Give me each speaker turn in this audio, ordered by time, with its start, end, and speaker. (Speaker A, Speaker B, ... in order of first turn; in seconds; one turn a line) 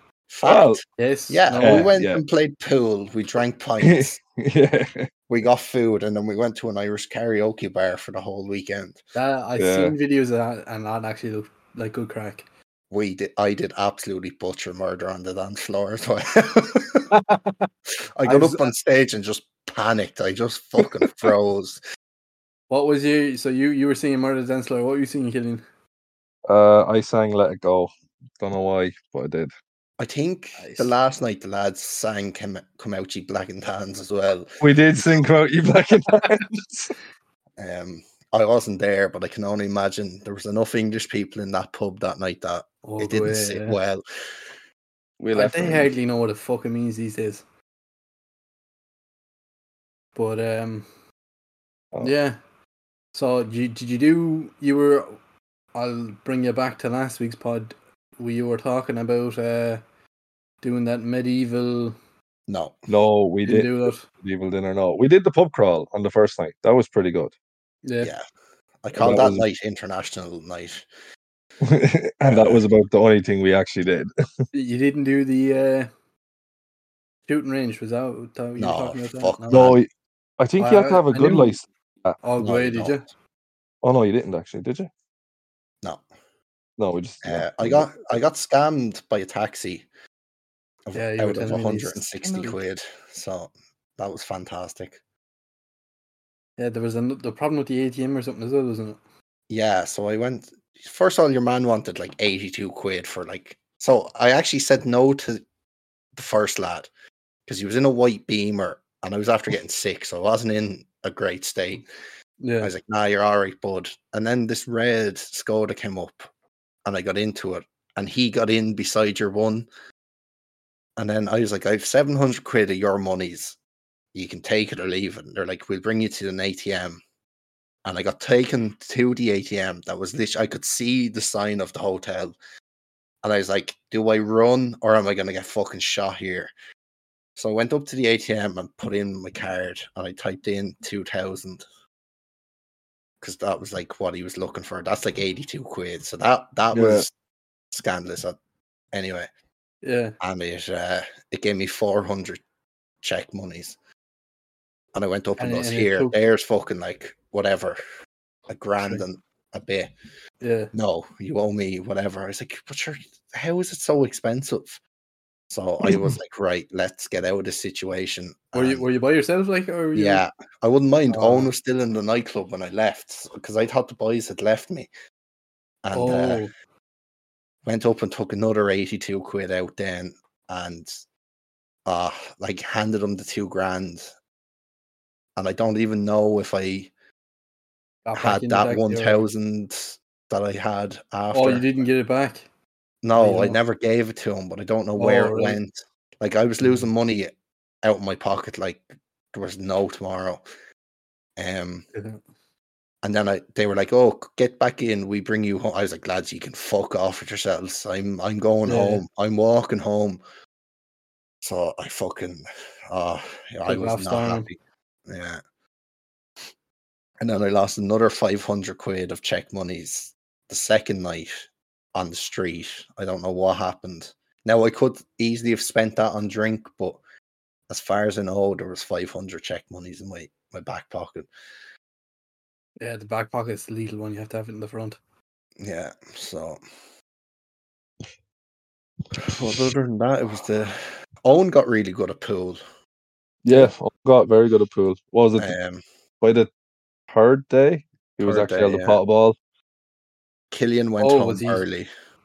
Speaker A: 0.3-4.2
Speaker B: 0.4-0.8
Speaker C: 1.0-1.9
Speaker B: 1.6-2.2
Speaker B: 3.8-5.1
Speaker A: 5.3-9.0
Speaker C: 9.2-12.5
Speaker B: 9.6-10.0
Speaker A: 12.9-17.1
Speaker C: 17.1-17.7
Speaker A: 18.2-21.8
Speaker C: 18.2-18.7
Speaker C: 22.7-25.6
Speaker B: 26.5-29.5
Speaker A: 30.0-35.2
Speaker B: 34.6-36.9
Speaker A: 37.6-44.5
Speaker C: 42.8-43.8
Speaker B: 45.2-45.9
Speaker C: 45.3-47.4
Speaker C: 50.1-50.9
Speaker C: 52.0-52.4
Speaker C: 53.1-55.2
Speaker C: 55.7-59.8
Speaker C: 60.6-62.0
Speaker A: 62.5-62.9
Speaker B: 62.9-67.3
Speaker C: 63.5-64.1
Speaker C: 67.8-68.1
Speaker A: 68.8-70.9
Speaker B: 69.0-69.5
Speaker B: 71.6-74.1
Speaker A: 72.3-72.6
Speaker C: 74.5-75.9
Speaker C: 77.3-79.8
Speaker A: 78.6-79.8
Speaker B: 79.5-79.9
Speaker B: 80.4-82.2
Speaker C: 80.6-81.6
Speaker C: 82.2-83.0
Speaker A: 82.4-83.0
Speaker B: 83.8-84.9
Speaker B: 86.8-87.9
Speaker A: 87.2-89.9
Speaker A: 90.9-95.0
Speaker C: 90.9-92.6
Speaker C: 96.6-99.0
Speaker A: 99.5-105.4
Speaker A: 106.2-106.9
Speaker A: 107.5-111.9
Speaker C: 112.4-112.7
Speaker A: 112.6-116.3
Speaker A: 116.8-119.7
Speaker A: 121.0-123.6
Speaker A: 124.1-127.0
Speaker A: 127.8-132.4
Speaker A: 133.2-136.5
Speaker A: 137.4-141.7
Speaker A: 143.2-147.1
Speaker B: 146.7-147.1
Speaker A: 147.7-148.4
Speaker A: 148.9-149.3
Speaker C: 149.8-150.2
Speaker A: 150.2-152.4
Speaker A: 153.0-153.8
Speaker A: 154.9-157.8
Speaker C: 155.4-156.2
Speaker A: 158.5-159.9
Speaker C: 160.4-160.7
Speaker A: 160.7-164.8
Speaker A: 165.5-168.9
Speaker C: 168.5-170.2
Speaker A: 169.9-174.9
Speaker C: 171.1-171.5
Speaker A: 175.8-176.5
Speaker C: 175.9-176.5
Speaker A: 177.7-180.9
Speaker A: 181.9-184.1
Speaker A: 185.4-186.9
Speaker C: 188.1-189.2
Speaker A: 188.2-191.7
Speaker C: 191.3-192.5
Speaker A: 193.0-200.4
Speaker C: 193.2-193.6
Speaker C: 195.0-195.6
Speaker C: 196.6-196.9
Speaker A: 201.4-201.8
Speaker C: 201.9-202.2
Speaker A: 203.0-210.2
Speaker C: 208.7-209.0
Speaker A: 211.4-215.4
Speaker C: 213.7-214.5
Speaker A: 217.2-227.0
Speaker A: 227.7-231.3
Speaker C: 232.8-235.0
Speaker A: 235.6-236.6
Speaker A: 239.2-242.6
Speaker B: 243.4-245.6
Speaker A: 245.4-245.8
Speaker B: 246.2-246.5
Speaker B: 247.1-249.4
Speaker A: 248.2-249.0
Speaker A: 250.5-251.9
Speaker C: 251.0-251.6